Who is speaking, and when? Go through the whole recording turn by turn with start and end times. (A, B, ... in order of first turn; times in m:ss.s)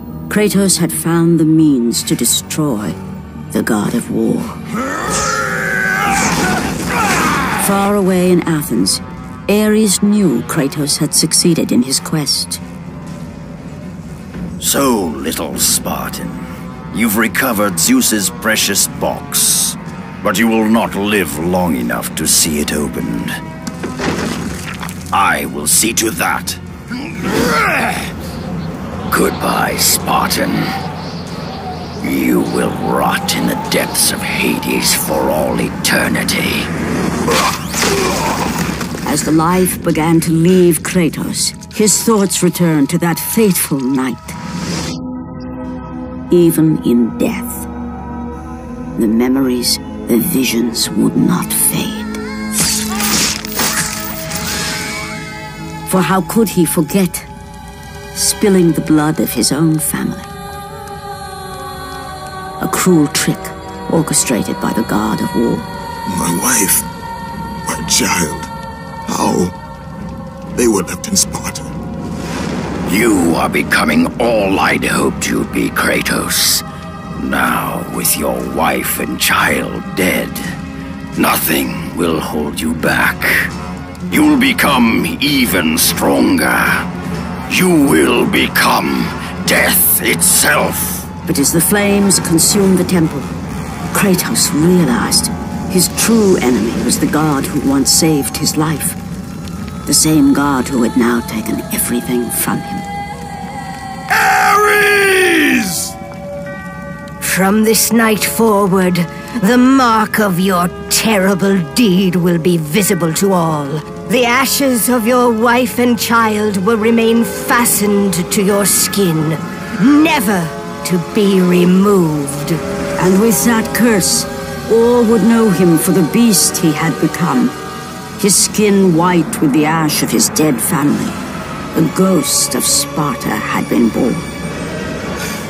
0:00.3-0:03.0 A
0:03.5-0:04.6 A
0:07.5-0:12.6 A
0:14.6-0:23.3 B
0:25.1-0:26.6 B
0:27.2-0:27.9 B
0:29.1-0:30.7 B
0:32.0-0:36.7 B
0:39.0-0:44.4 A
0:46.3-0:47.7 A
0:49.0-0:52.2 A
0:55.9-0:57.3 A
0:58.2-1:00.3 A
1:02.6-1:05.7 A
1:06.1-1:06.9 C
1:07.7-1:08.5 C
1:09.1-1:09.6 C
1:10.6-1:11.7 C
1:12.9-1:16.6 B
1:17.2-1:20.6 B
1:21.2-1:23.5 B
1:24.1-1:26.9 B
1:27.5-1:31.1 B
1:31.3-1:33.3 A
1:33.9-1:39.0 A
1:39.9-1:42.9 A
1:44.1-1:45.9 C
1:47.2-2:02.6 D
2:03.0-2:07.6 A
2:08.2-2:11.2 A
2:11.7-2:14.3 A